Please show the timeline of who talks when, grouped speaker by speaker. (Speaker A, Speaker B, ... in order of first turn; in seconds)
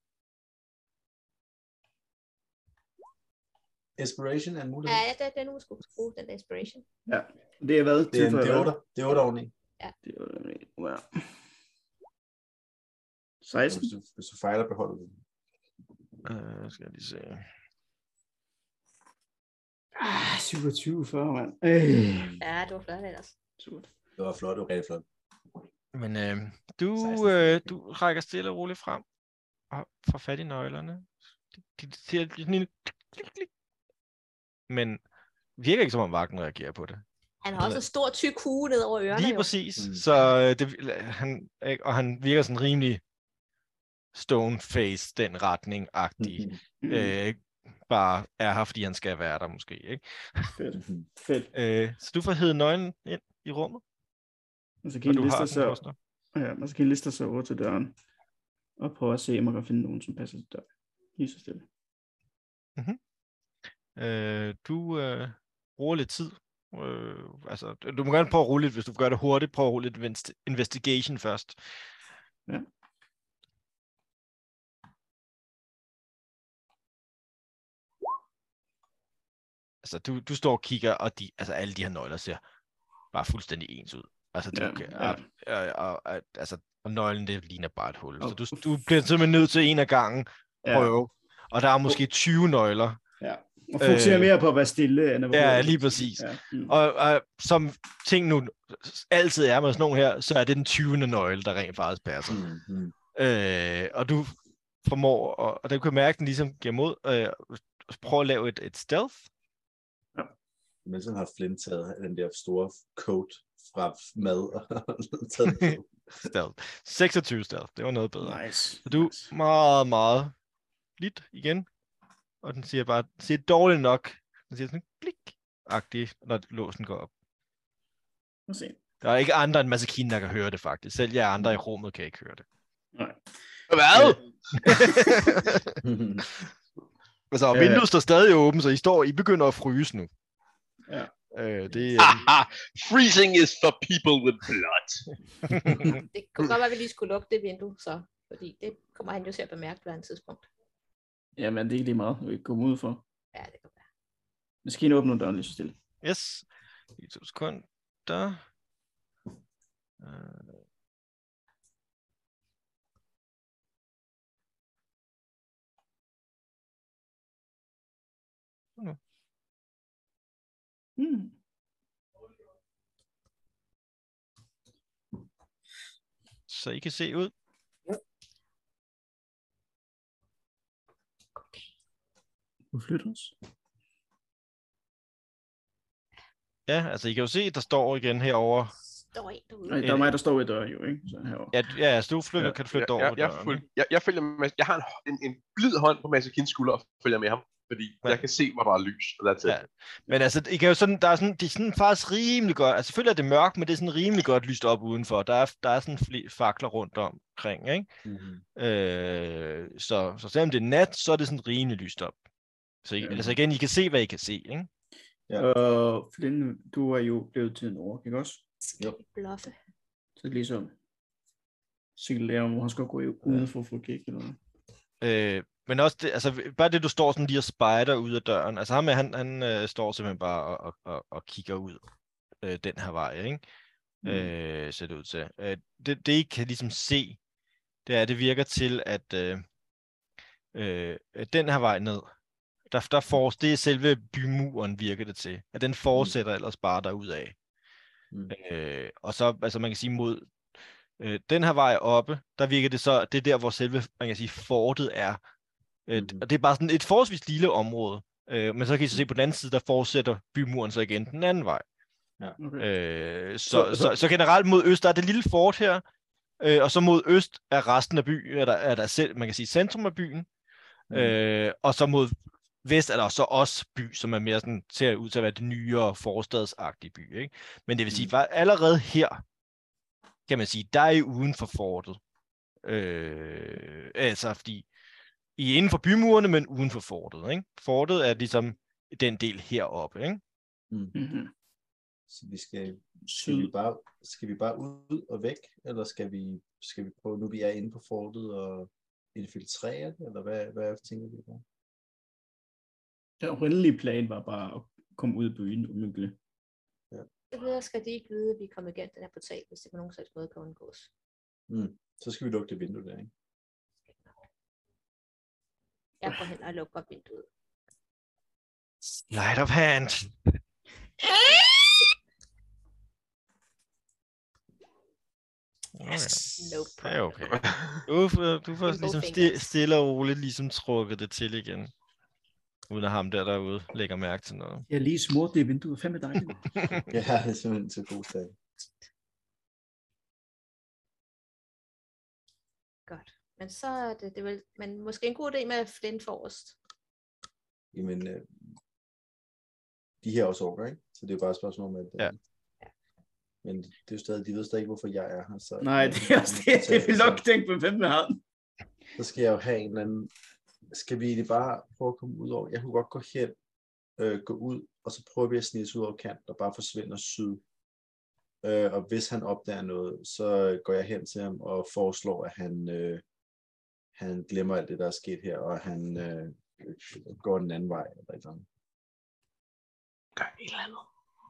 Speaker A: 4.0-5.0, 8.1-9.5, 13.7-15.2, 24.2-25.0, 27.0-27.8, 39.8-40.0, 46.2-46.6, 50.8-51.0, 102.3-102.9, 110.8-116.3, 135.8-136.2, 208.0-208.4, 213.0-213.3, 255.9-256.2, 270.9-271.2, 290.7-290.9, 292.1-301.4, 311.5-313.1, 336.9-338.3, 347.7-348.3, 350.0-352.1, 353.4-357.2, 358.9-360.1, 360.7-363.3, 364.0-367.4, 368.4-373.0, 373.9-378.4
Speaker B: 4.8-6.8, 22.4-23.3, 37.4-39.5, 145.8-150.5, 153.3-153.8, 181.3-181.7, 188.9-189.9, 218.6-219.5, 307.3-310.9, 316.0-317.2, 321.1-321.4, 325.9-327.2, 328.6-329.5, 342.9-346.6
Speaker C: 7.1-8.7, 10.0-11.3, 13.4-13.9, 19.9-22.4, 23.6-23.9, 46.8-47.1, 50.5-51.5, 54.8-55.8, 56.3-57.9, 58.8-61.6, 84.5-85.2, 88.2-88.5, 90.6-90.9, 93.2-96.7, 118.2-119.3, 128.5-128.8, 132.9-133.2, 134.6-135.1, 137.5-137.8, 151.4-153.0, 154.6-155.8, 171.0-171.3, 182.7-183.3, 189.7-191.5, 215.4-218.4, 220.2-220.7, 222.0-224.4, 234.0-234.3, 262.4-262.7, 263.5-263.9, 290.9-291.3, 293.1-293.5, 303.2-306.1, 334.7-336.4, 355.6-358.2
Speaker D: 16.2-17.4, 25.9-29.0, 29.7-31.1, 31.7-33.5, 34.7-35.0, 35.6-37.0, 37.5-37.8, 39.1-43.0, 44.1-50.5, 51.5-53.8, 55.0-55.9, 64.0-71.6, 79.8-82.4, 83.1-93.0, 93.8-94.3, 95.3-102.4, 103.1-109.3, 115.5-120.3, 121.0-121.7, 122.4-127.1, 129.0-132.4, 133.9-135.8, 137.3-140.1, 141.3-142.2, 145.5-146.0, 156.0-156.4, 157.0-158.4, 160.0-160.6, 176.5-177.3, 186.7-188.7, 189.8-190.1, 191.5-193.6, 199.4-207.9, 208.6-212.2, 212.8-214.7, 225.0-231.8, 232.4-233.4, 234.0-237.2, 237.8-239.4, 240.5-242.1, 242.7-247.3, 248.3-250.3, 251.0-255.2, 255.9-261.6, 262.6-265.8, 266.4-270.3, 270.9-279.2, 280.3-282.0, 282.6-284.6, 285.4-290.2, 318.9-320.1, 325.8-331.7, 332.7-334.6, 336.6-336.8
Speaker E: 133.7-134.2, 142.0-145.1, 192.7-199.6, 327.4-327.8, 380.1-380.9